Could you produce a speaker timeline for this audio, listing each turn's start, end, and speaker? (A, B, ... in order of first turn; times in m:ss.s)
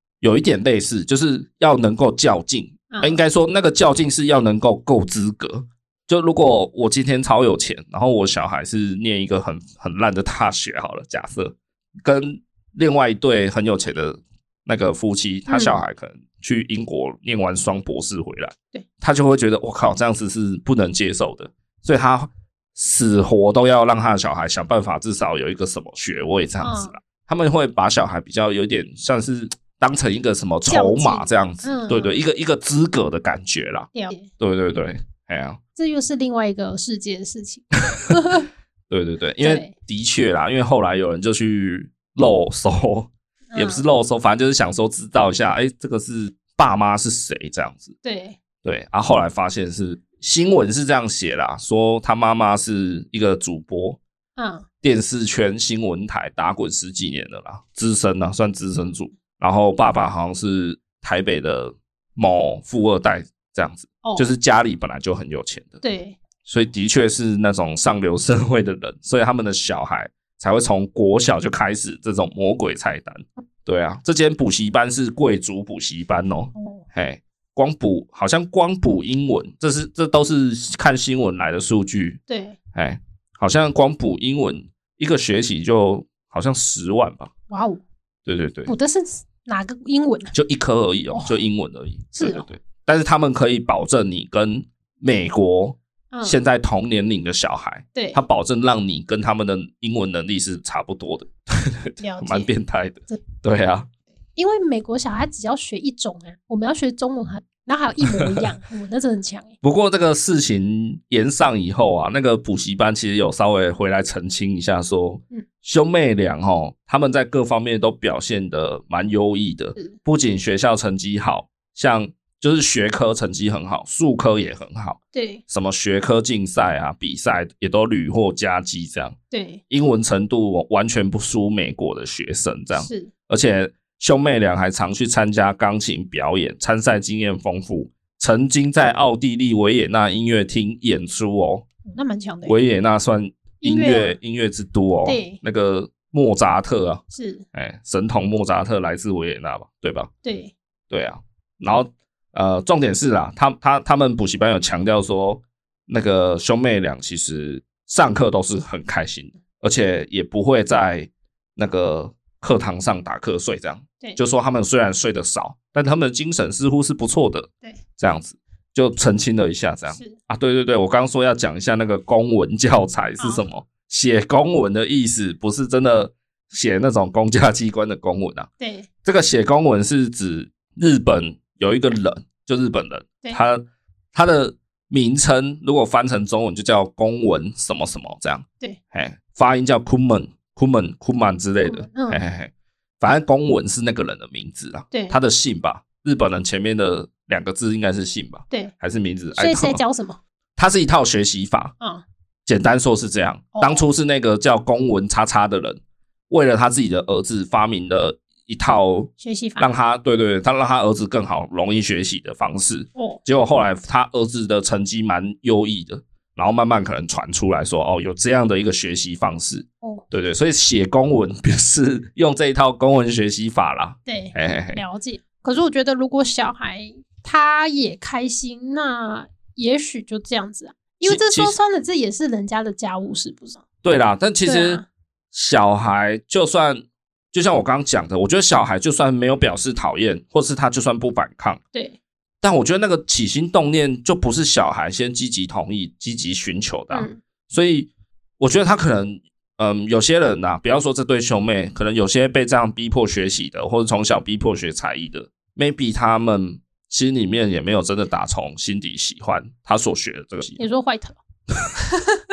0:00.2-0:35.6 A
0:02.9-0:03.2 B
0:15.5-0:15.8 B
0:26.6-0:27.0 B
0:30.7-0:32.2 B
0:33.9-0:34.3 B
0:35.8-0:38.5 B
0:38.9-0:47.9 A
0:39.4-0:39.7 B
0:43.5-0:43.8 B
0:48.0-0:48.4 B
0:48.6-0:54.0 A
0:54.4-0:54.7 B
0:54.8-1:05.8 A
1:04.0-1:04.3 B
1:05.8-1:06.2 B
1:06.4-1:22.2 A
1:16.6-1:16.8 B
1:22.3-1:22.6 B
1:22.8-1:27.3 A
1:27.5-1:27.8 B
1:28.3-1:28.7 A
1:28.7-1:30.3 B
1:30.3-1:43.9 A
1:31.1-1:31.4 B
1:32.1-1:32.5 B
1:36.1-1:36.4 B
1:42.0-1:42.5 B
1:44.4-1:49.6 B
1:48.2-1:48.4 A
1:49.6-2:09.2 A
2:05.1-2:05.4 B
2:09.3-2:09.6 B
2:09.7-2:21.7 A
2:12.8-2:13.1 B
2:21.9-2:22.6 B
2:22.5-2:27.0 A
2:23.6-2:24.2 B
2:25.0-2:25.4 B
2:27.1-2:27.4 B
2:27.5-2:30.1 A
2:30.2-2:30.5 B
2:30.9-2:58.5 A
2:49.9-2:50.2 B
2:58.6-2:58.9 B
2:59.0-3:19.8 A
3:11.7-3:12.2 B
3:14.9-3:15.2 B
3:19.4-3:20.2 B
3:20.6-3:21.7 A
3:22.5-3:44.8 A
3:23.5-3:23.8 B
3:29.2-3:29.7 B
3:44.1-3:53.6 B
3:51.1-3:51.6 A
3:53.8-3:54.8 A
3:54.4-3:54.8 B
3:55.3-4:01.6 A
4:02.4-4:20.6 A
4:06.9-4:07.2 B
4:20.6-4:21.2 B
4:21.8-4:22.2 B